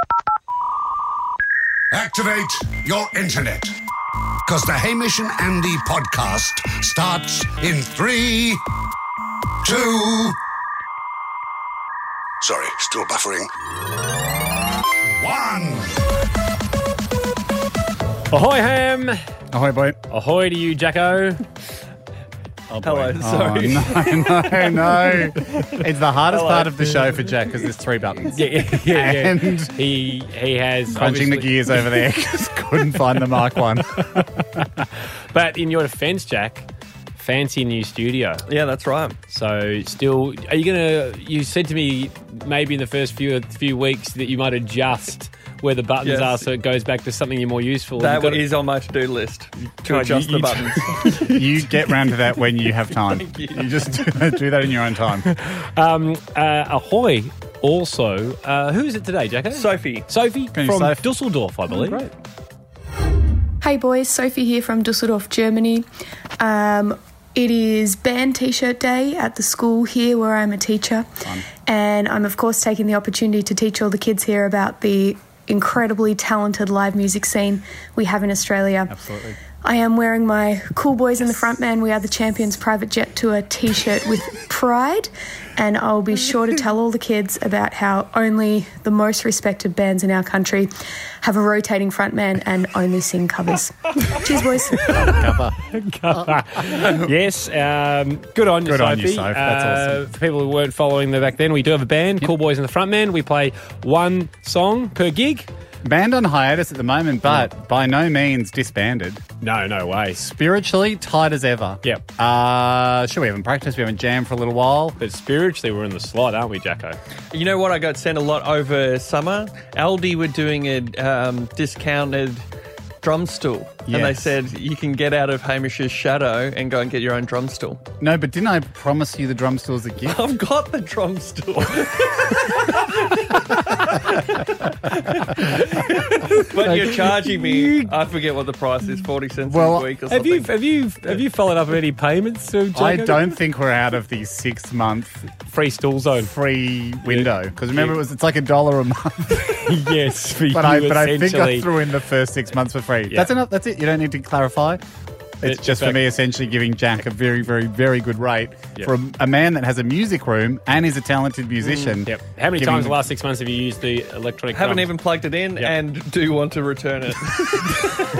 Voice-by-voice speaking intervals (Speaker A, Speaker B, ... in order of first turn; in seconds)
Speaker A: 1.9-3.8, 4.5-8.6, 9.6-10.3, 12.4-13.5, 15.2-15.9
Speaker B: 18.3-19.2, 20.1-21.4, 28.3-31.9, 34.0-34.4, 35.3-38.4, 39.3-48.4, 49.9-51.3, 55.3-62.1, 95.7-105.5, 109.4-110.2, 115.0-117.0, 135.8-137.9, 140.1-143.3, 145.5-146.3, 147.1-148.0, 149.3-151.7, 155.4-156.0, 161.8-164.9
Speaker C: 19.5-20.0, 22.7-29.7, 30.9-34.3, 51.1-55.2, 60.5-61.0, 78.9-79.4, 94.8-95.5, 96.1-97.1, 98.6-100.0, 105.8-109.2, 110.2-115.0, 123.9-124.3, 128.0-130.2, 139.5-139.9, 142.7-145.2, 146.2-149.5, 150.5-154.8, 155.4-163.0
Speaker D: 22.8-24.2, 26.3-27.1, 38.5-39.2, 46.0-46.5, 48.0-51.2, 53.1-53.8, 59.5-60.1, 117.3-122.4, 123.0-127.8, 130.1-132.8, 134.9-140.5, 164.5-167.8
Speaker E: 63.6-65.9, 66.4-78.9, 79.6-95.1